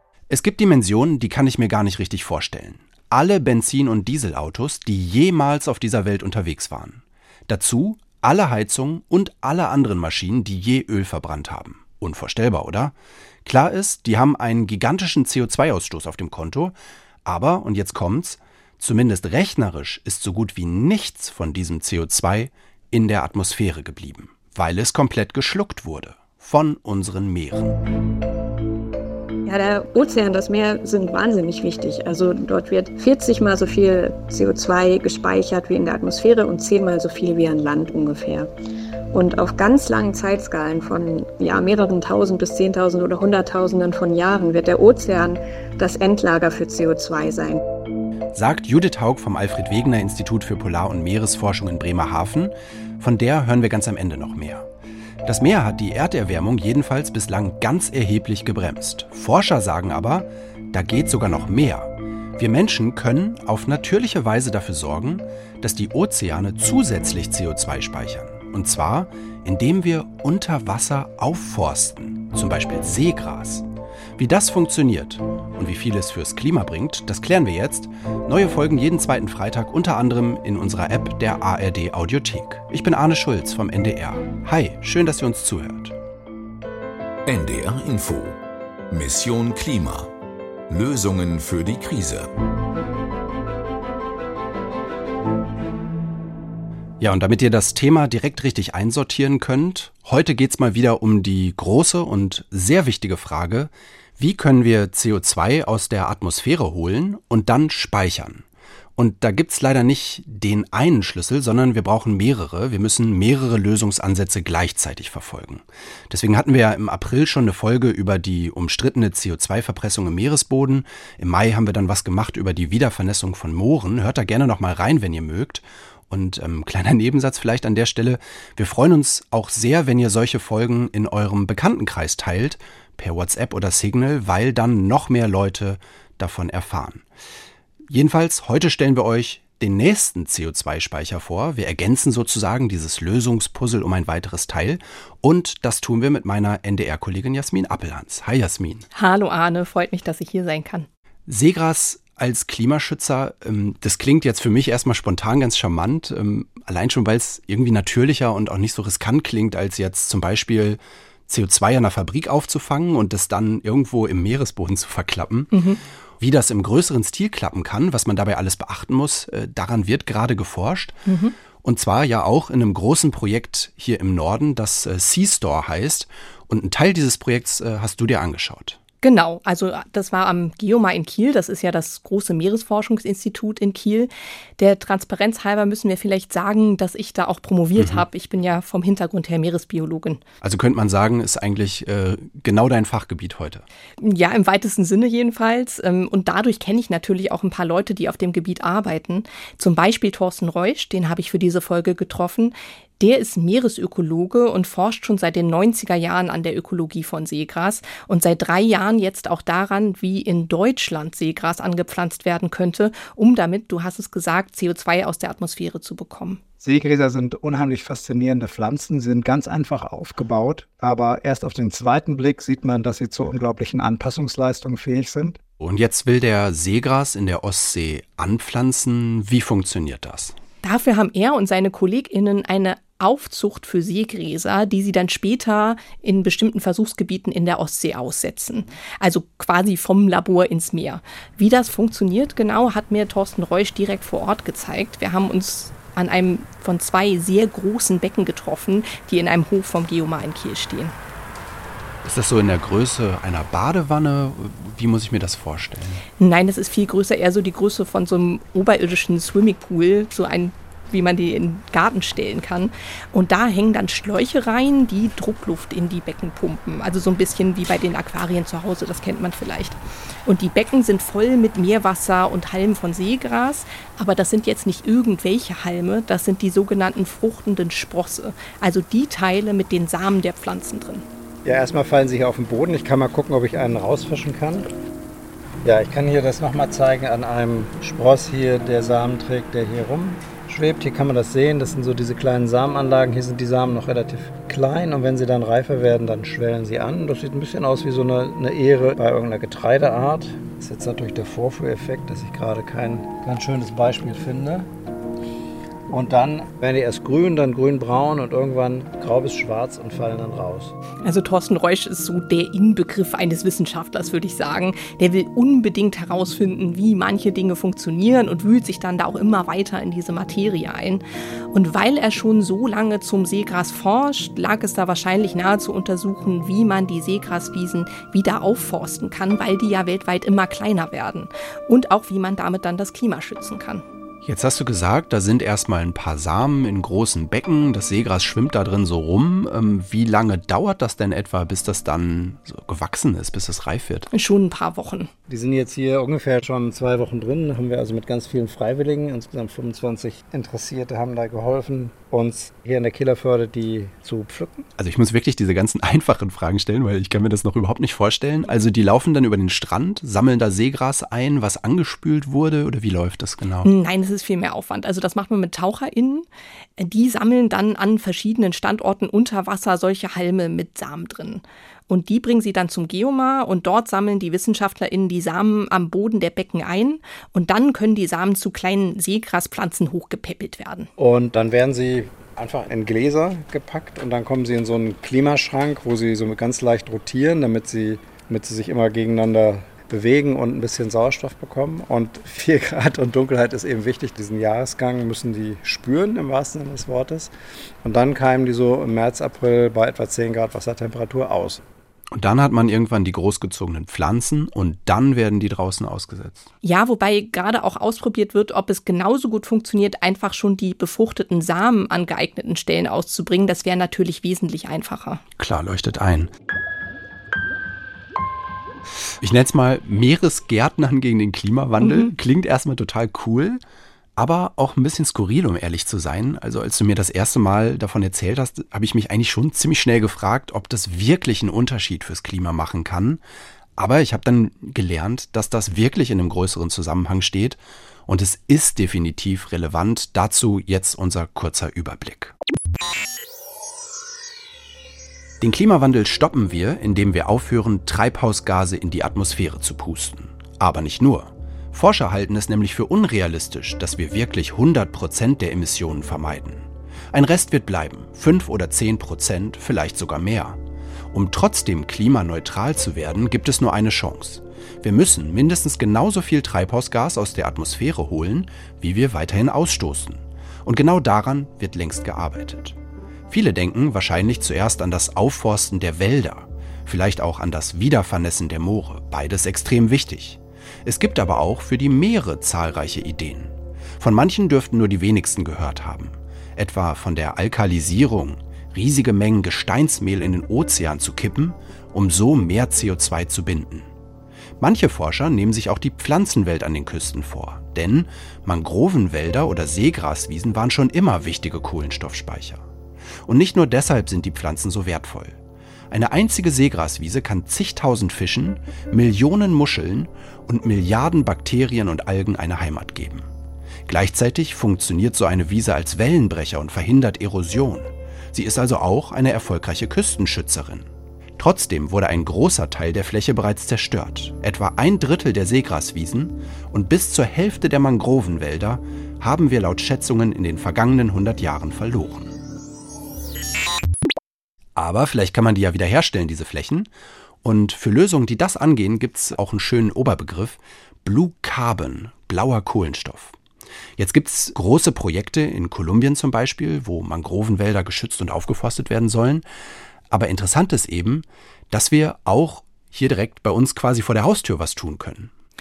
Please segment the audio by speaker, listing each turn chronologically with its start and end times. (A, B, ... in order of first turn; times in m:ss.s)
0:00.3-0:12.9 A
0:13.4-0:16.7 A
0:17.3-0:27.8 A
0:29.5-0:38.5 B
0:39.1-0:47.6 B
0:48.3-0:54.7 A
0:55.2-1:13.7 A
1:14.2-1:26.0 A
1:27.3-1:28.4 C
1:28.9-1:30.1 C
1:30.7-1:32.3 C
1:37.0-1:48.4 A
1:49.0-2:17.0 A
2:17.9-2:28.9 A
2:29.0-2:30.9 D
2:31.3-2:45.5 A
2:45.5-2:45.8 D
2:46.2-2:51.0 A
2:51.1-2:51.4 D
2:51.6-2:58.8 A
2:59.0-3:10.2 D
3:07.8-3:08.0 A
3:10.4-3:13.6 A
3:14.0-3:36.4 D
3:36.6-3:45.4 E
3:45.6-3:50.4 A
3:50.6-4:10.9 D
4:12.0-4:16.0 A
4:16.2-4:41.0 D
4:41.4-4:44.7 E
4:45.6-5:04.7 E
5:05.9-5:10.8 E
5:11.0-5:33.8 D
5:34.2-5:44.1 A
5:44.1-5:45.1 D
5:45.3-5:54.7 E
5:54.8-6:03.7 A
6:03.6-6:06.3 D
6:06.8-6:20.9 D
6:21.0-6:41.6 E
6:42.1-6:46.5 A
6:46.6-6:55.2 D
6:55.4-6:56.3 A
6:59.2-7:03.6 A
7:01.8-7:02.1 D
7:04.2-7:13.2 A
7:13.8-7:22.3 A
7:25.4-7:40.6 A
7:41.1-7:52.8 A
7:53.3-8:13.9 A
8:14.6-8:22.6 A
8:23.3-8:25.4 A
8:25.9-8:33.3 A
8:33.9-8:52.3 A
8:54.8-8:56.9 A
8:57.4-9:03.4 A
9:04.0-9:09.4 A
9:10.1-9:15.3 A